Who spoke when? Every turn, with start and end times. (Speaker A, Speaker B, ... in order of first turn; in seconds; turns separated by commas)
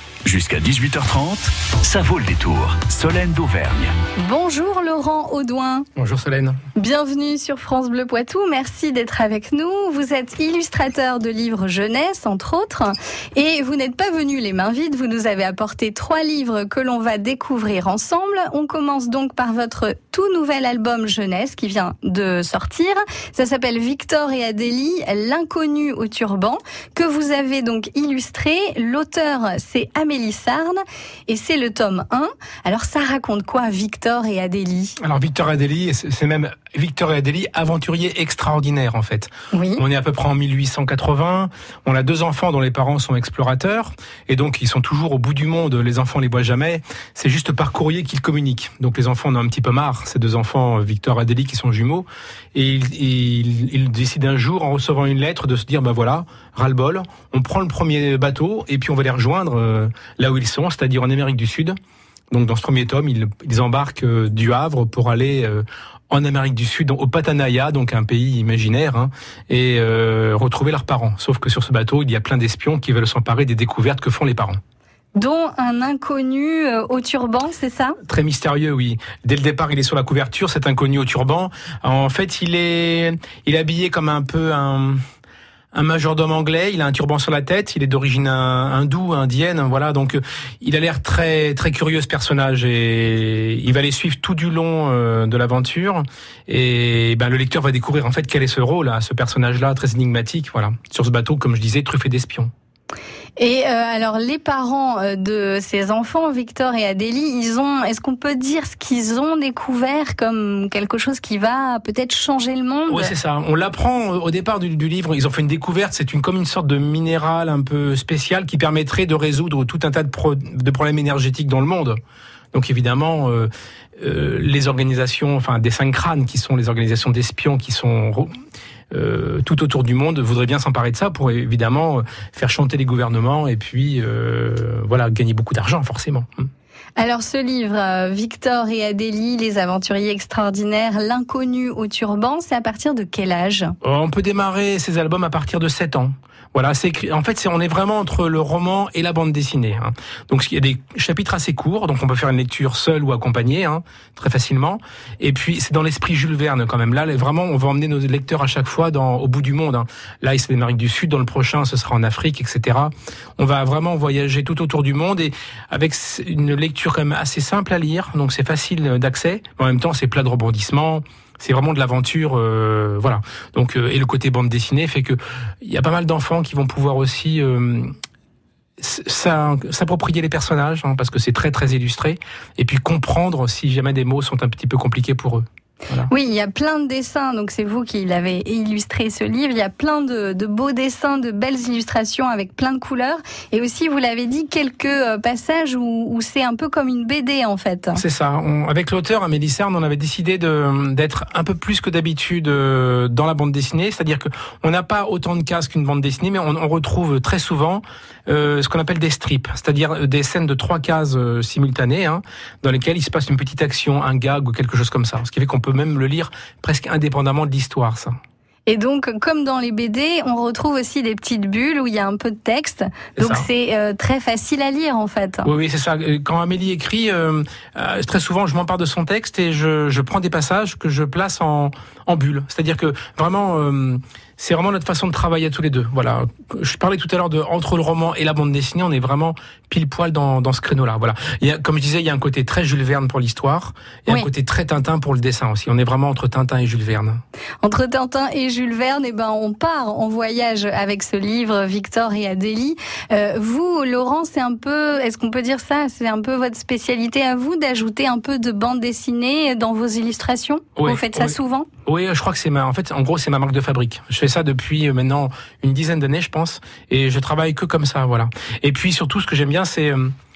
Speaker A: 0.2-4.0, Speaker B: 4.2-5.9, Speaker C: 6.0-6.6, Speaker B: 6.8-35.0, Speaker C: 35.0-61.8, Speaker B: 39.5-39.8, Speaker C: 62.3-74.6, Speaker B: 75.2-78.0, Speaker C: 78.1-85.0, Speaker C: 85.7-102.5, Speaker B: 103.4-113.2, Speaker C: 112.9-122.0, Speaker C: 122.5-128.3, Speaker C: 128.9-136.5, Speaker B: 137.0-143.7, Speaker C: 143.8-177.9, Speaker C: 178.8-186.1, Speaker B: 186.1-198.0, Speaker C: 197.9-218.2, Speaker B: 218.7-225.5, Speaker C: 223.2-223.5, Speaker C: 225.4-247.2, Speaker B: 247.6-261.7, Speaker C: 260.8-270.1